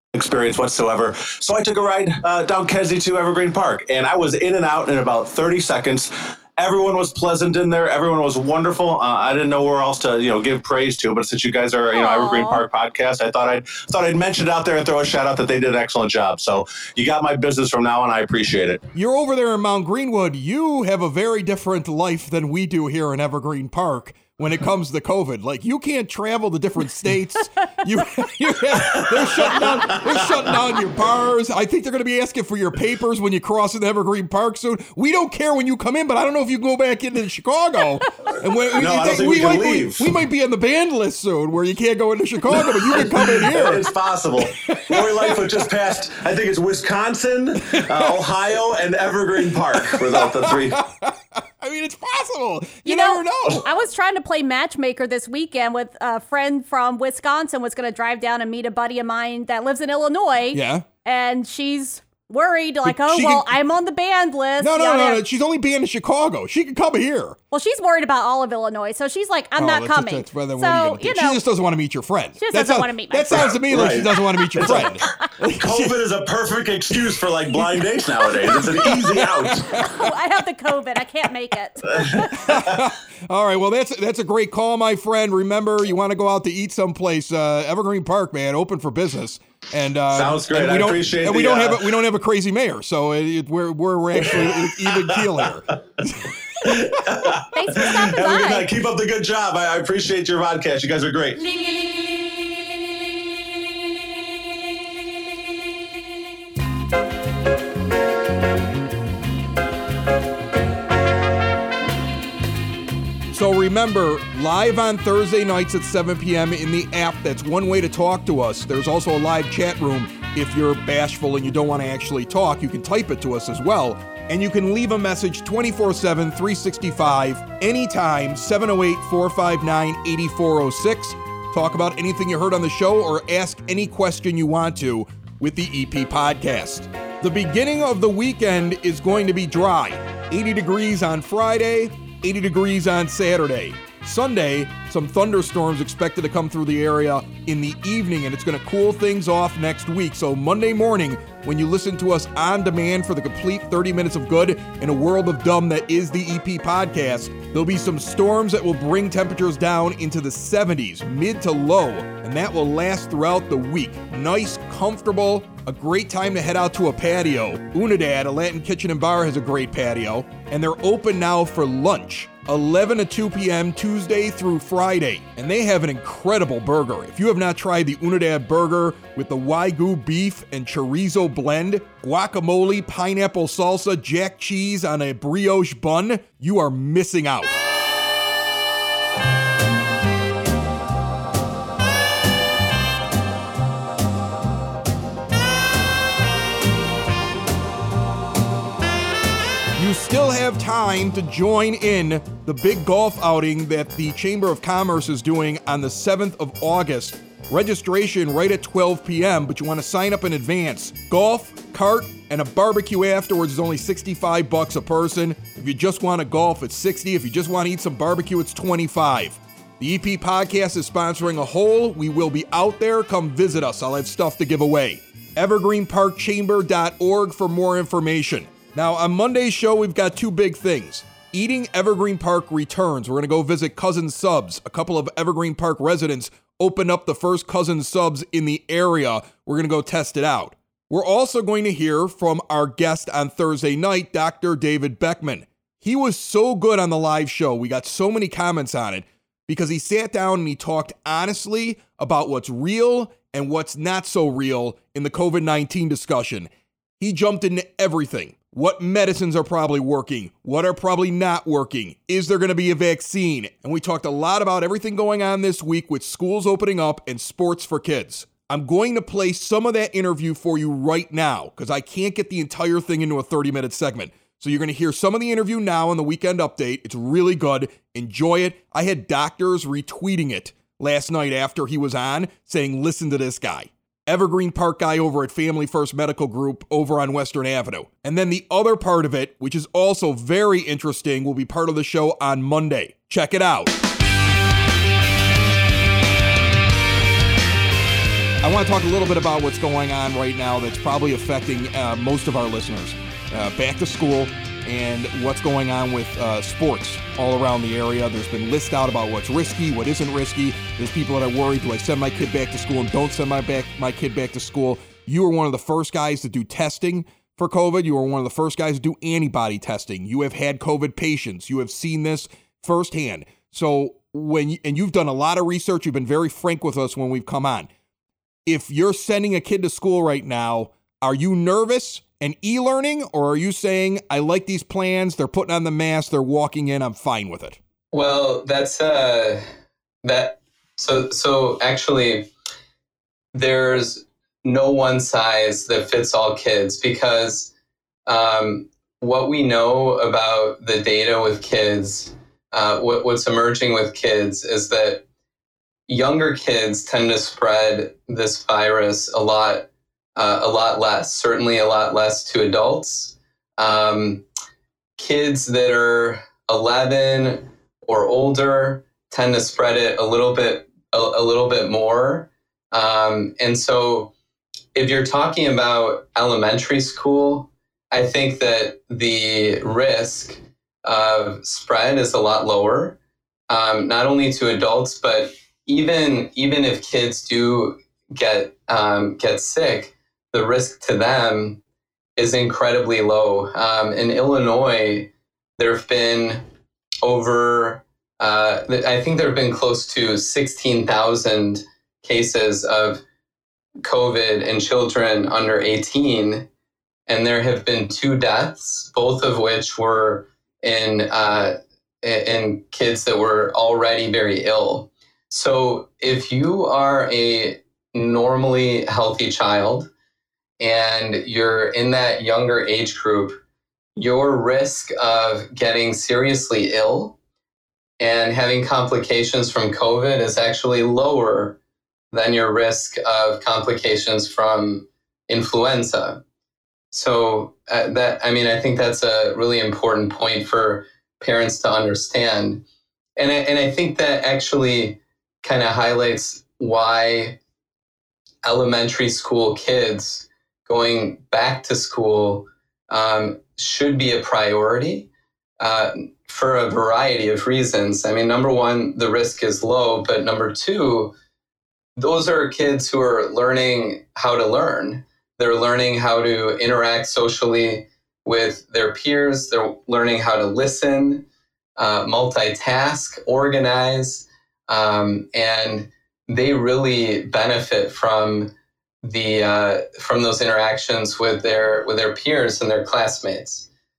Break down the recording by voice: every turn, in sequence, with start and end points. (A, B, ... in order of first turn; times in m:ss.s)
0:00.2-0:18.8 A
0:11.9-0:12.6 B
0:18.9-0:43.9 C
0:28.8-0:30.4 A
0:38.8-0:40.1 A
0:42.6-0:50.8 A
0:44.4-0:45.5 C
0:47.8-0:48.1 C
0:49.8-0:53.7 C
0:52.8-1:05.2 B
1:00.5-1:00.8 C
1:02.8-1:03.5 C
1:04.6-1:07.4 C
1:07.5-1:11.4 B
1:09.6-1:16.0 C
1:12.4-1:13.6 B
1:13.3-1:19.8 A
1:14.4-1:15.0 B
1:17.6-1:17.8 C
1:18.8-1:20.1 C
1:19.7-1:22.5 B
1:21.9-1:22.8 A
1:22.3-1:36.7 C
1:30.1-1:32.0 A
1:34.2-1:36.1 A
1:36.6-1:41.4 A
1:37.5-1:38.7 B
1:53.3-3:07.5 C
3:19.8-4:53.8 C
4:58.4-5:27.7 C
5:28.4-5:37.6 C
5:37.9-5:39.4 D
5:40.0-5:42.3 D
5:43.3-5:47.5 D
5:48.1-5:55.0 D
5:55.9-6:04.2 D
6:05.0-6:14.1 D
6:14.8-6:23.0 D
6:23.5-6:31.6 D
6:32.2-6:36.4 D
6:37.0-6:43.0 D
6:43.8-6:46.4 D
6:47.1-6:59.9 D
7:00.6-7:03.4 D
7:04.0-7:07.2 D
7:08.0-7:11.6 D
7:12.1-7:16.2 D
7:16.9-7:22.6 D
7:23.2-7:27.4 D
7:28.4-7:35.1 D
7:35.6-7:41.1 D
7:42.0-7:51.2 D
7:51.8-7:58.5 D
7:59.0-8:03.7 D